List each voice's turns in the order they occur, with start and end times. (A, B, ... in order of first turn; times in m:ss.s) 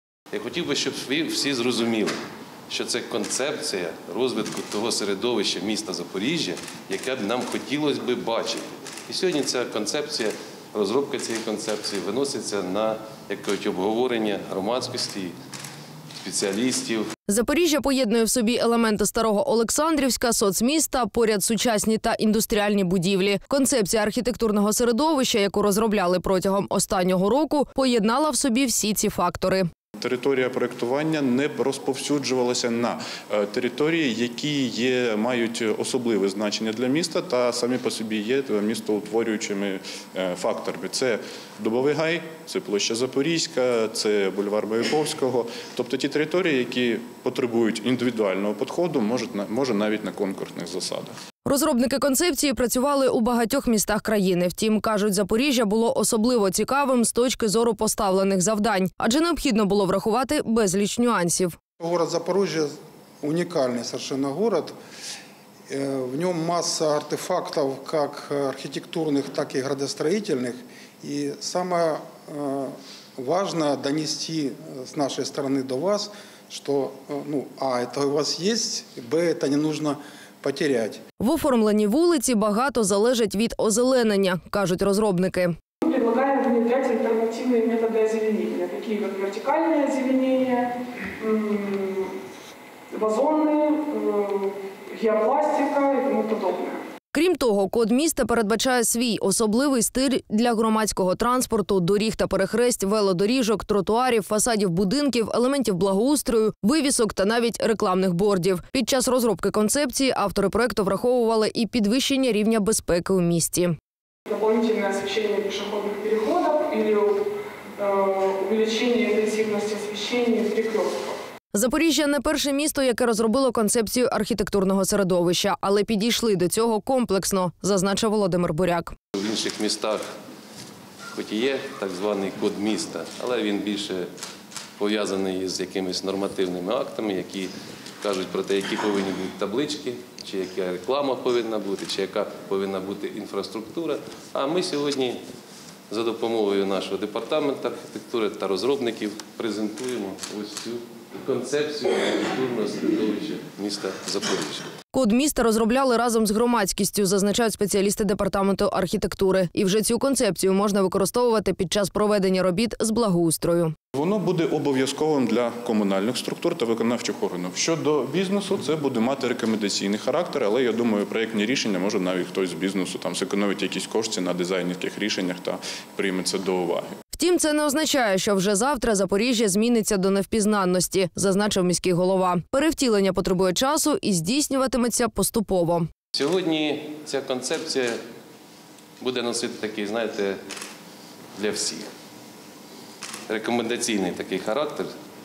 0:00.3-0:02.2 A
0:02.7-0:15.3 A
0:16.2-0:17.1 A
0:17.3-0:29.7 B
0:30.0-0:51.1 C
0:51.4-1:01.5 B
1:01.8-1:04.7 D
1:05.7-1:21.0 D
1:21.2-1:25.5 B
1:25.8-1:32.2 E
1:32.9-1:36.8 E
1:37.1-1:53.7 B
1:54.3-2:01.2 E
2:01.5-2:08.9 B
2:09.1-2:10.0 A
2:11.1-2:14.1 A
2:14.8-2:25.2 A
2:25.9-2:34.7 A
2:34.9-2:43.7 B
2:43.9-2:56.9 C
2:57.1-3:05.9 B
3:06.1-3:08.0 A
3:09.0-3:10.4 A
3:11.3-3:11.9 A
3:13.3-3:14.9 A